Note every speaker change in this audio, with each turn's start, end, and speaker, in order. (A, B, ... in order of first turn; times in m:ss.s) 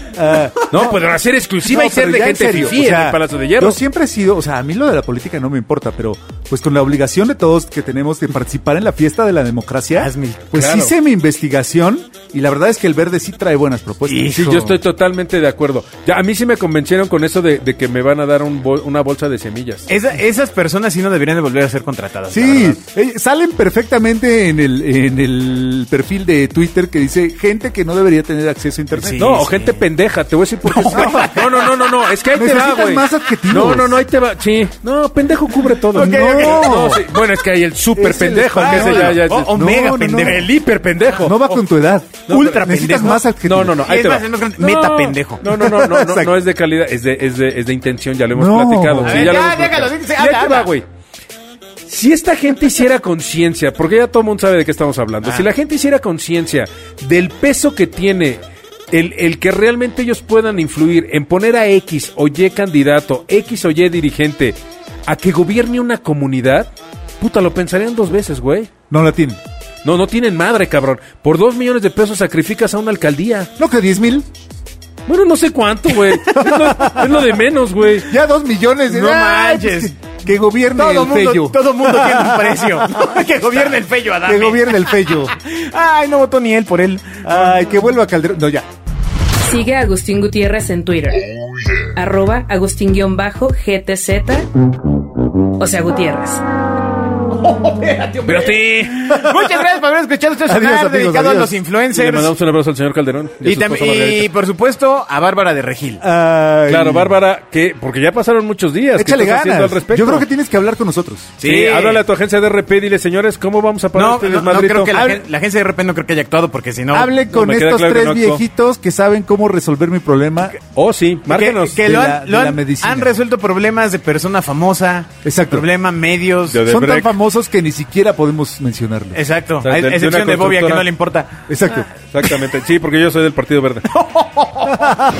0:00.1-0:01.0 A
0:00.7-0:03.8 B
0:01.6-0:14.7 A
0:09.9-0:10.9 C
0:10.6-0:10.9 B
0:14.0-0:14.8 C
0:14.3-0:19.9 B
0:19.9-0:22.8 C
0:22.3-0:29.5 A
0:28.9-0:29.8 C
0:29.2-0:39.5 B
0:30.6-0:32.0 C
0:30.9-0:31.4 A
0:32.3-0:34.0 A
0:35.9-0:37.0 C
0:35.9-0:37.0 A
0:38.0-0:40.4 A
0:38.5-0:40.5 C
0:40.1-0:41.6 B
0:41.1-0:43.9 A
0:42.3-0:50.8 B
0:42.3-0:43.2 C
0:43.8-0:45.4 C
0:45.4-0:46.4 A
0:48.3-0:49.4 A
0:49.0-0:50.7 C
0:51.8-0:58.4 B
0:58.9-1:08.7 B
1:08.9-1:09.4 A
1:09.8-1:13.5 B
1:13.6-1:14.2 A
1:15.1-1:18.1 B
1:16.3-1:17.0 C
1:16.4-1:17.3 A
1:17.9-1:23.2 A
1:18.9-1:19.9 C
1:20.7-1:27.6 C
1:24.2-1:25.4 A
1:27.2-1:28.6 A
1:29.4-1:31.2 D
1:31.8-1:34.5 D
1:35.6-1:36.4 D
1:37.4-1:42.3 C
1:38.2-1:39.3 B
1:40.4-1:41.6 A
1:41.9-1:44.3 B
1:43.4-1:46.0 C
1:46.0-1:47.1 A
1:46.7-1:50.2 B
1:49.0-1:51.4 A
1:51.4-1:52.0 C
1:51.4-1:55.2 B
1:53.9-1:57.1 C
1:56.9-2:00.6 A
1:57.3-1:58.4 B
2:00.7-2:01.9 B
2:01.3-2:06.7 C
2:01.8-2:03.1 A
2:05.2-2:05.6 A
2:06.5-2:07.1 B
2:06.6-2:09.2 A
2:09.1-2:11.4 C
2:09.6-2:10.8 B
2:11.5-2:11.9 A
2:12.1-2:13.9 B
2:13.9-2:14.8 C
2:14.7-2:15.0 A